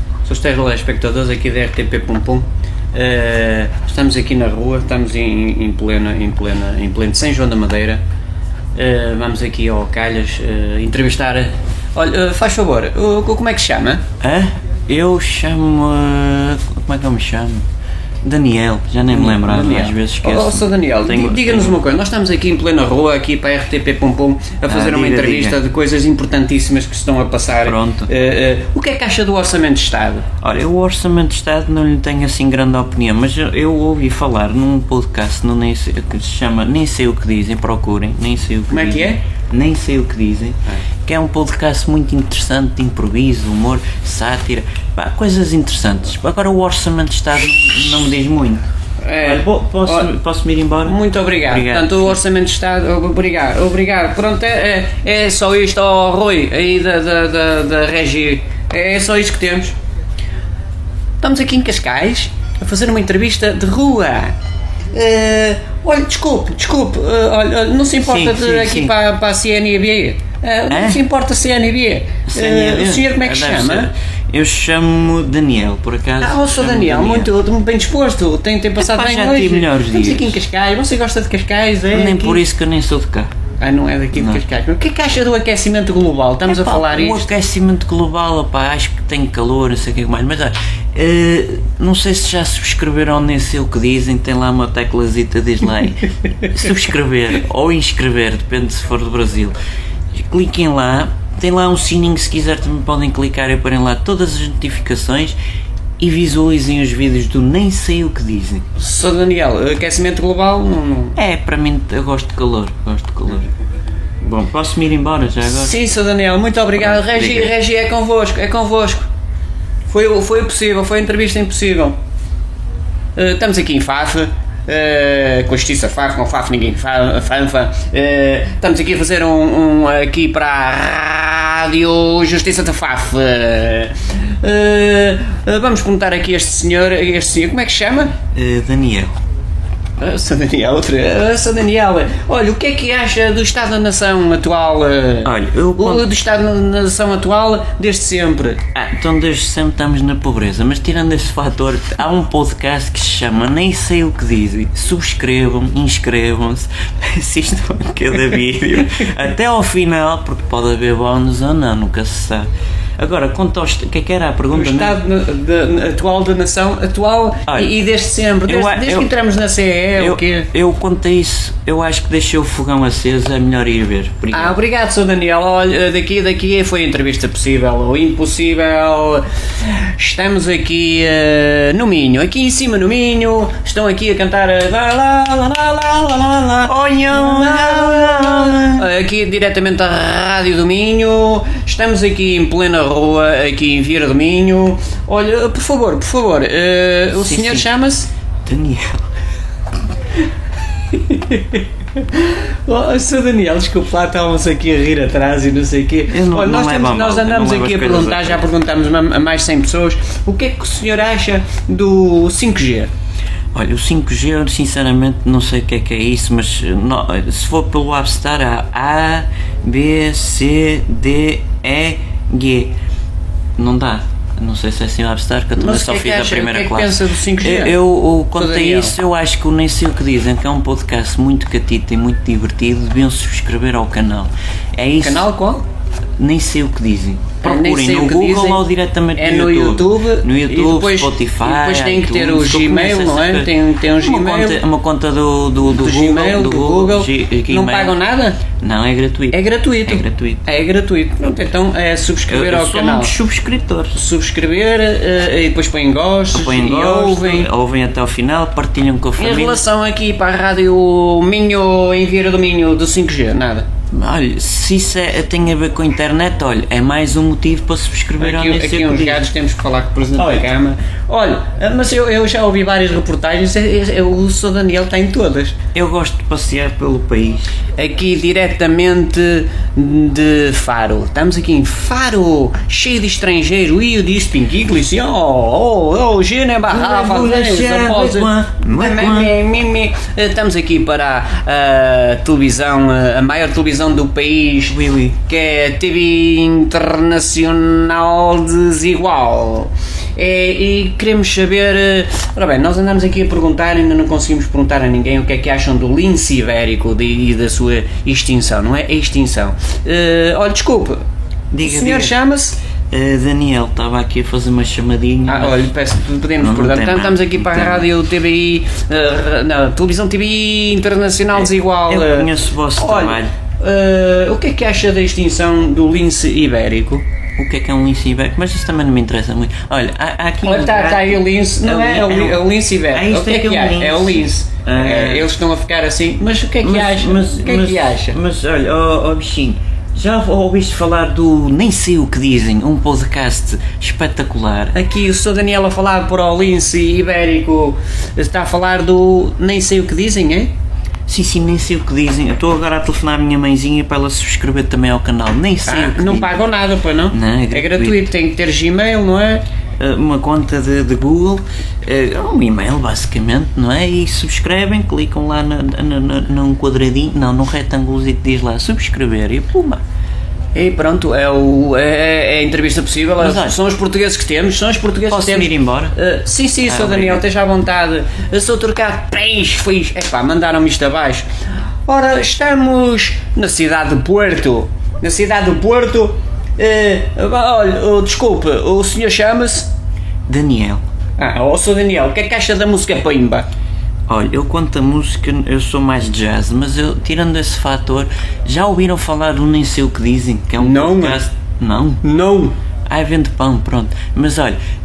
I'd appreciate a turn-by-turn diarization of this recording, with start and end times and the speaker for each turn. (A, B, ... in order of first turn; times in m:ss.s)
0:00.2-0:08.0 A
0:08.8-0:14.0 A
0:14.2-0:17.7 B
0:18.2-0:21.8 B
0:19.1-0:30.2 A
0:24.7-0:25.6 B
0:27.6-0:28.1 B
0:30.4-0:48.6 B
0:38.7-0:39.2 A
0:49.0-0:50.1 A
0:49.2-0:52.2 B
0:50.8-0:59.8 A
1:01.2-1:04.3 A
1:04.9-1:13.9 A
1:08.0-1:08.9 B
1:10.7-1:11.0 B
1:12.3-1:17.3 B
1:16.2-1:22.4 A
1:18.8-1:20.4 B
1:21.9-1:23.3 B
1:23.6-1:27.3 A
1:24.1-1:24.4 B
1:26.4-1:39.6 B
1:40.2-1:45.4 B
1:46.0-1:48.6 B
1:48.8-1:51.2 A
1:51.2-1:53.5 B
1:54.2-1:55.7 B
1:55.4-1:59.1 A
1:56.9-1:57.5 B
1:59.9-2:02.0 A
2:03.2-2:18.1 A
2:18.3-2:19.2 B
2:20.0-2:28.6 A
2:25.2-2:26.1 B
2:28.8-2:44.9 B
2:44.5-2:50.5 A
2:48.5-2:49.1 B
2:50.0-2:54.6 B
2:54.3-3:18.1 A
3:06.6-3:08.8 B
3:17.2-3:17.7 B
3:18.4-3:19.0 B
3:20.9-3:32.9 A
3:26.1-3:28.4 B
3:33.5-3:42.7 B
3:43.6-3:55.3 B
3:45.6-3:47.8 A
3:48.4-3:48.9 A
3:55.0-3:55.6 A
3:56.2-4:08.0 B
3:57.4-3:58.6 A
3:59.2-4:04.6 A
4:05.7-4:08.4 A
4:08.6-4:10.4 B
4:09.3-4:13.1 A
4:12.3-4:14.0 B
4:14.0-4:17.5 A
4:16.3-4:19.6 B
4:19.2-4:23.7 A
4:23.9-4:29.3 B
4:28.2-4:35.6 A
4:30.2-4:30.5 B
4:35.7-4:37.6 B
4:37.8-5:11.0 A
4:46.7-4:49.3 B
4:54.7-4:55.2 B
5:11.5-5:12.1 B
5:11.6-5:12.6 A
5:12.9-5:15.7 B
5:15.3-5:27.0 A
5:16.4-5:17.9 B
5:21.9-5:23.3 B
5:27.4-5:35.3 B
5:30.4-5:38.2 A
5:36.6-5:44.8 B
5:44.7-5:50.5 A
5:51.1-5:56.4 B
5:55.7-5:59.4 A
5:57.1-5:58.0 B
5:59.8-6:09.8 B
6:10.6-6:21.3 A
6:13.2-6:13.6 B
6:15.1-6:16.0 B
6:16.7-6:17.2 B
6:21.9-6:29.7 A
6:30.3-6:30.8 B
6:31.2-6:33.5 A
6:34.1-6:42.0 B
6:40.6-6:41.2 A
6:42.0-6:42.6 A
6:42.9-6:44.6 B